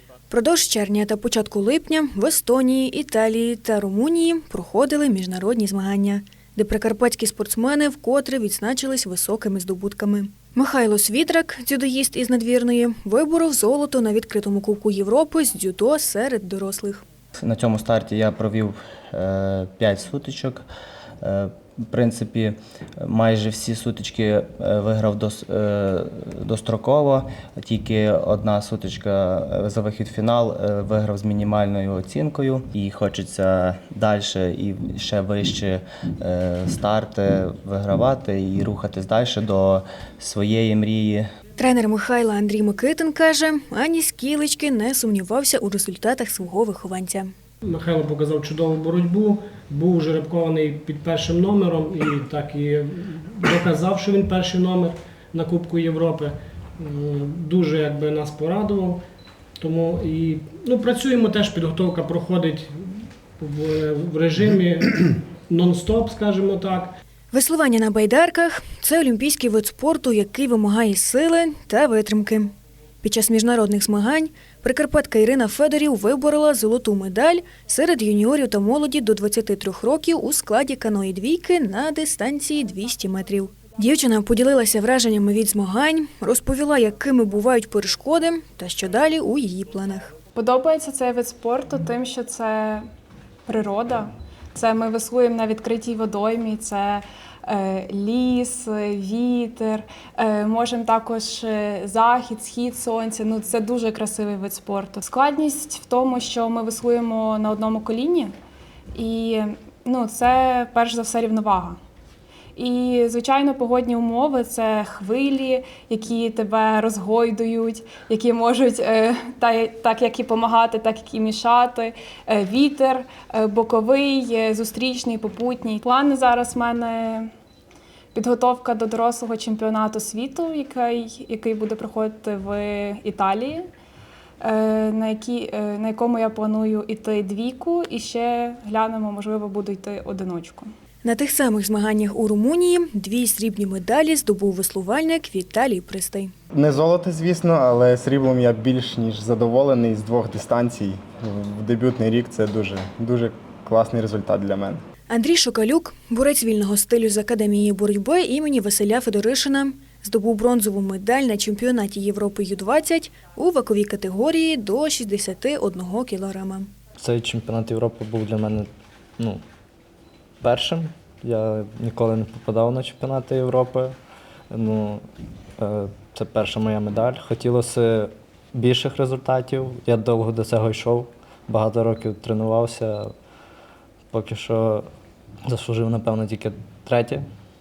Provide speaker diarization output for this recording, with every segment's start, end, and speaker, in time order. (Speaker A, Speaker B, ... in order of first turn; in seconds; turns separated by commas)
Speaker A: 0.3-17.1, Speaker B: 17.4-20.6, Speaker B: 21.2-41.3, Speaker A: 41.6-47.3, Speaker C: 47.6-59.0, Speaker C: 59.6-66.9, Speaker A: 67.3-90.1, Speaker D: 90.3-92.9, Speaker D: 93.5-108.3, Speaker D: 109.0-111.8, Speaker D: 112.6-127.3, Speaker D: 128.1-133.7, Speaker D: 134.4-140.7, Speaker A: 141.0-146.3, Speaker E: 146.5-154.8, Speaker A: 155.1-166.7, Speaker F: 167.0-168.7, Speaker F: 170.4-173.9, Speaker F: 174.5-175.0, Speaker F: 175.6-183.1, Speaker F: 184.1-184.9, Speaker F: 185.5-187.2